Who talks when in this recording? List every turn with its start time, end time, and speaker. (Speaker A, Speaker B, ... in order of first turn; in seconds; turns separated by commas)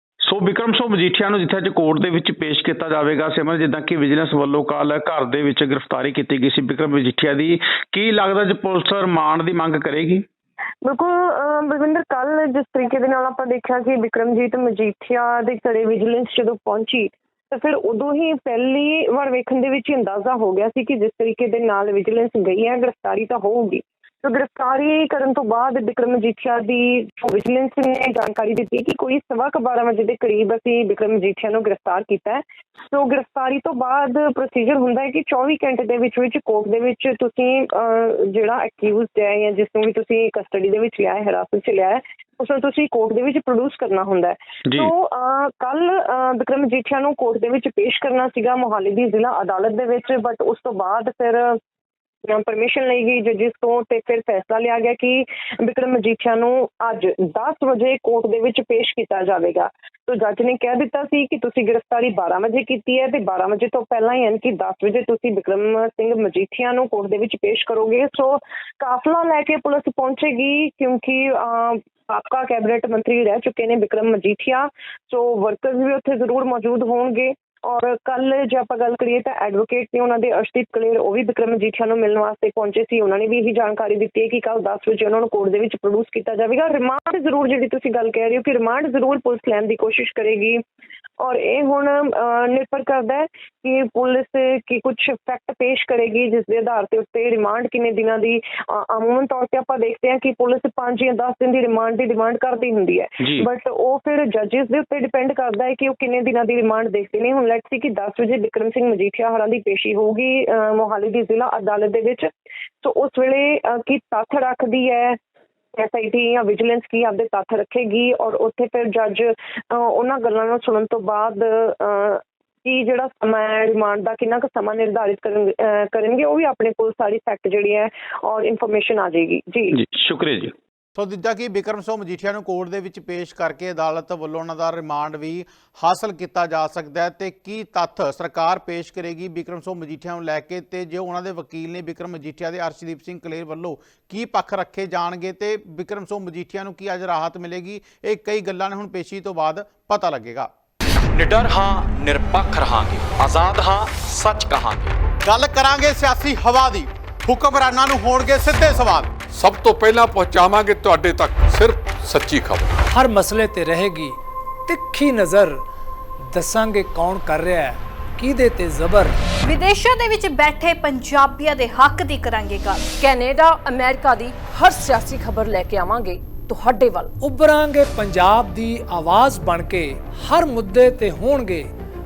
Speaker A: 0.2-10.2, Speaker B: 10.8-51.6, Speaker B: 52.3-90.6, Speaker B: 91.2-112.3, Speaker B: 112.8-115.2, Speaker B: 115.8-129.8, Speaker A: 129.7-130.5, Speaker C: 131.0-150.5, Speaker D: 151.1-155.0, Speaker C: 155.2-159.1, Speaker E: 159.3-162.7, Speaker F: 162.9-165.6, Speaker F: 166.3-169.2, Speaker G: 169.4-172.8, Speaker H: 173.0-177.1, Speaker F: 177.2-181.7